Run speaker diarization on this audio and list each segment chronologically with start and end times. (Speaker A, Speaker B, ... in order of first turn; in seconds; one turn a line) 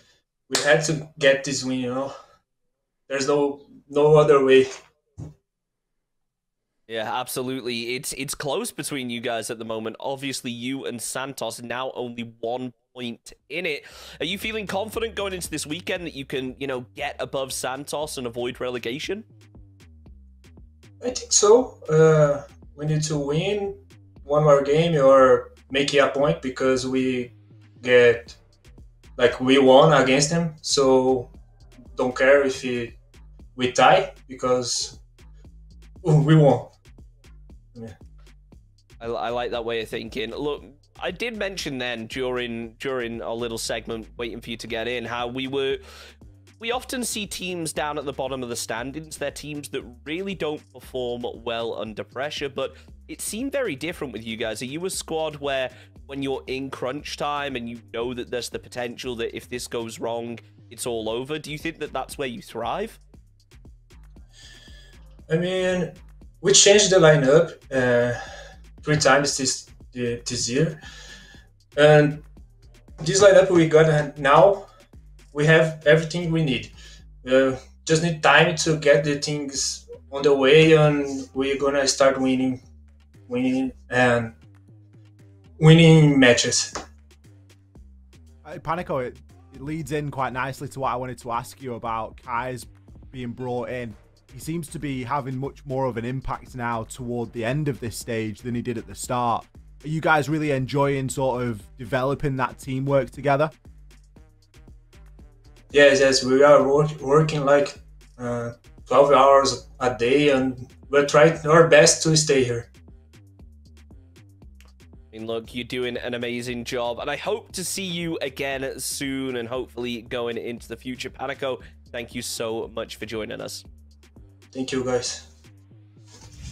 Speaker A: 0.5-2.1
Speaker A: 3.1-4.7
Speaker B: 6.9-19.3
Speaker A: 21.0-28.4
Speaker A: 29.2-31.3
Speaker A: 32.0-33.0
Speaker A: 33.5-35.0
Speaker A: 36.0-36.7
Speaker B: 39.0-45.8
Speaker B: 46.6-63.0
Speaker A: 65.3-68.2
Speaker A: 68.8-70.8
Speaker A: 71.8-72.3
Speaker A: 73.0-74.7
Speaker A: 75.3-76.7
Speaker A: 77.2-82.6
Speaker A: 83.3-84.4
Speaker A: 85.6-86.7
Speaker C: 88.5-103.5
Speaker A: 105.7-112.7
Speaker B: 115.1-123.6
Speaker A: 124.5-125.3